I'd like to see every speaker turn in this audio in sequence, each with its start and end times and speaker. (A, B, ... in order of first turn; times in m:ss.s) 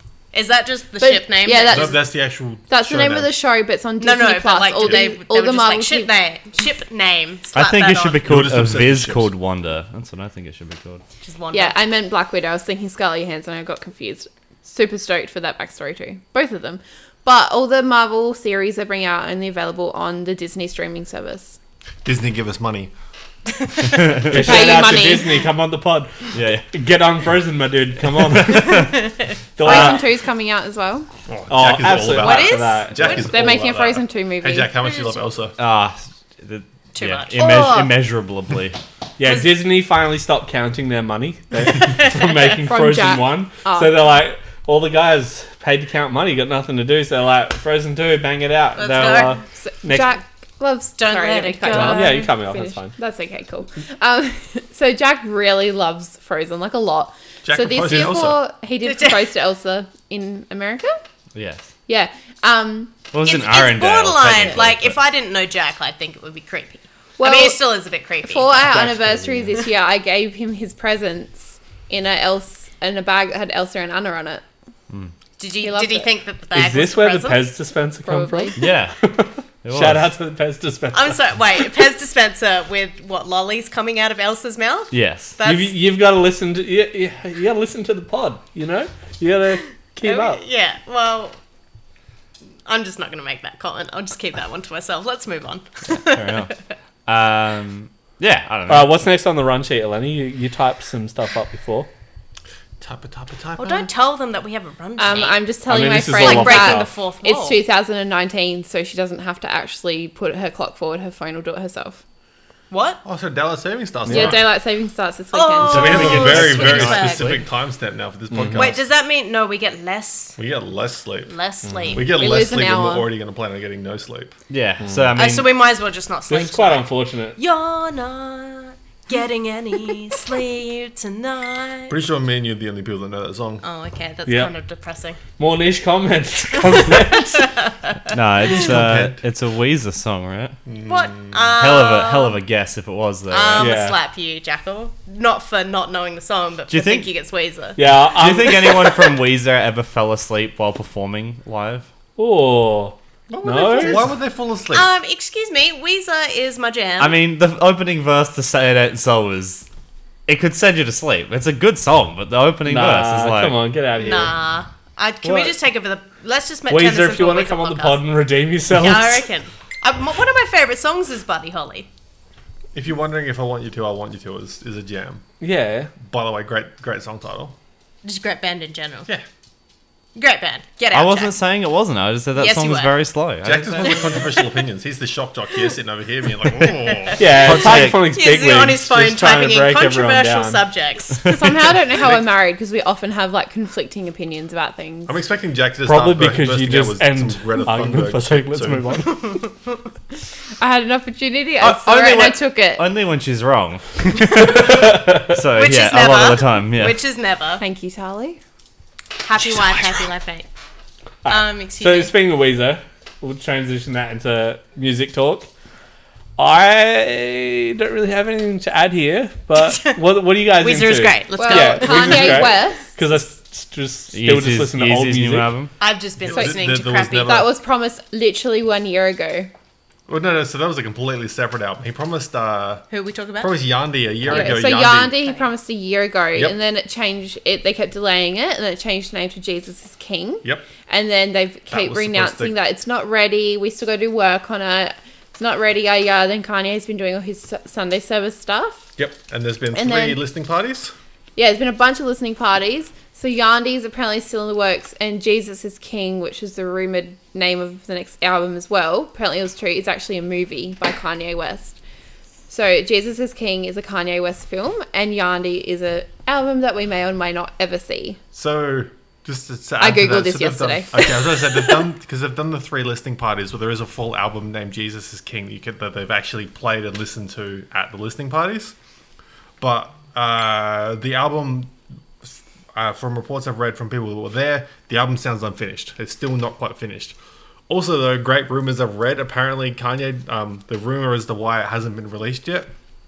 0:00.3-0:02.0 A
0:01.0-0:02.0 B
0:01.7-0:03.3 C
0:02.7-0:06.1 B
0:04.0-0:08.2 A
0:07.5-0:11.0 D
0:08.2-0:09.3 C
0:11.2-0:11.8 A
0:11.5-0:21.6 B
0:22.0-0:22.9 C
0:24.3-0:25.5 B
0:24.3-0:28.9 E
0:26.3-0:26.6 D
0:28.3-0:28.9 D
0:29.6-0:30.0 E
0:29.6-0:31.1 B
0:31.3-0:35.5 C
0:31.5-0:33.3 E
0:32.2-0:33.2 A
0:33.0-0:34.7 B
0:34.8-0:35.3 A
0:35.6-0:38.8 D
0:36.9-0:37.9 A
0:37.4-0:37.9 B
0:39.2-0:50.2 E
0:39.2-0:39.5 A
0:41.7-0:42.3 A
0:42.6-0:44.0 B
0:48.8-0:49.4 A
0:49.6-1:01.0 B
0:51.0-0:52.3 A
0:51.7-0:53.0 E
0:57.4-0:58.4 C
0:58.8-0:59.3 A
1:01.3-1:01.7 D
1:01.9-1:03.0 B
1:03.1-1:05.0 D
1:03.2-1:08.8 A
1:07.2-1:07.7 B
1:08.2-1:14.4 B
1:08.6-1:09.6 E
1:15.4-1:17.5 A
1:15.6-1:16.1 B
1:16.5-1:21.2 E
1:18.0-1:18.7 B
1:18.6-1:19.0 D
1:19.6-1:20.1 D
1:20.9-1:25.7 A
1:24.9-1:25.4 D
1:25.4-1:30.4 E
1:30.0-1:31.4 A
1:32.6-1:36.5 A
1:36.0-1:36.5 D
1:37.0-1:38.9 D
1:38.7-1:41.9 E
1:42.8-1:43.9 C
1:43.6-1:45.5 A
1:45.0-1:52.0 B
1:45.7-1:46.9 E
1:46.1-1:47.6 A
1:52.7-1:53.0 A
1:53.0-1:54.5 C
1:54.1-1:56.4 B
1:55.3-1:57.4 A
1:55.7-1:58.8 C
1:55.7-1:57.4 D
1:58.3-1:58.7 E
1:58.5-2:00.4 A
2:00.4-2:01.3 C
2:01.3-2:02.2 A
2:01.6-2:02.0 E
2:01.9-2:04.3 C
2:02.1-2:03.1 B
2:04.5-2:05.5 D
2:04.8-2:05.1 E
2:05.1-2:12.0 A
2:06.3-2:07.4 E
2:11.9-2:13.6 C
2:13.6-2:15.2 A
2:14.2-2:14.5 E
2:15.4-2:17.5 E
2:16.7-2:18.0 A
2:18.1-2:20.6 D
2:18.4-2:19.2 C
2:20.7-2:21.5 C
2:20.9-2:22.4 A
2:21.6-2:23.8 D
2:23.3-2:27.8 A
2:23.6-2:24.0 E
2:26.7-2:27.1 D
2:27.8-2:28.9 E
2:28.1-2:31.9 D
2:32.2-2:34.1 E
2:33.3-2:34.9 C
2:34.7-2:37.2 A
2:37.0-2:39.7 D
2:40.3-2:43.7 D
2:42.6-2:44.3 E
2:44.0-2:48.1 A
2:45.2-2:45.6 E
2:46.7-2:49.3 E
2:48.7-2:51.9 A
2:52.7-2:55.2 C
2:55.4-2:55.9 E
2:56.0-2:57.6 C
2:58.0-2:59.1 A
3:00.1-3:01.3 A
3:00.9-3:04.0 D
3:02.4-3:02.9 A
3:03.4-3:07.6 C
3:03.8-3:04.5 A
3:06.6-3:11.5 A
3:07.2-3:10.7 E
3:07.3-3:08.1 D
3:11.2-3:15.2 B
3:12.0-3:12.2 C
3:15.1-3:19.1 C
3:15.8-3:19.4 E
3:19.1-3:19.8 A
3:20.6-3:22.9 B
3:21.6-3:27.0 D
3:24.4-3:25.4 E
3:25.6-3:27.6 A
3:27.6-3:28.4 B
3:29.2-3:30.5 A
3:31.2-3:35.5 E
3:31.2-3:32.1 A
3:36.4-3:45.5 E
3:39.6-3:40.0 A
3:40.6-3:42.5 A
3:41.3-3:43.0 B
3:44.1-3:45.7 D
3:45.8-3:47.4 A
3:46.2-3:47.5 C
3:46.3-3:46.6 B
3:47.2-3:49.5 B
3:50.1-3:52.8 C
3:52.9-3:53.6 A
3:53.4-3:55.2 C
3:54.3-4:08.9 B
3:54.3-3:55.5 A
4:01.7-4:02.6 C
4:09.0-4:10.9 C
4:09.7-4:10.2 B
4:11.4-4:21.8 B
4:22.5-4:28.2 B
4:28.3-4:38.7 C
4:29.8-4:31.9 B
4:39.6-4:47.2 C
4:47.7-4:52.7 C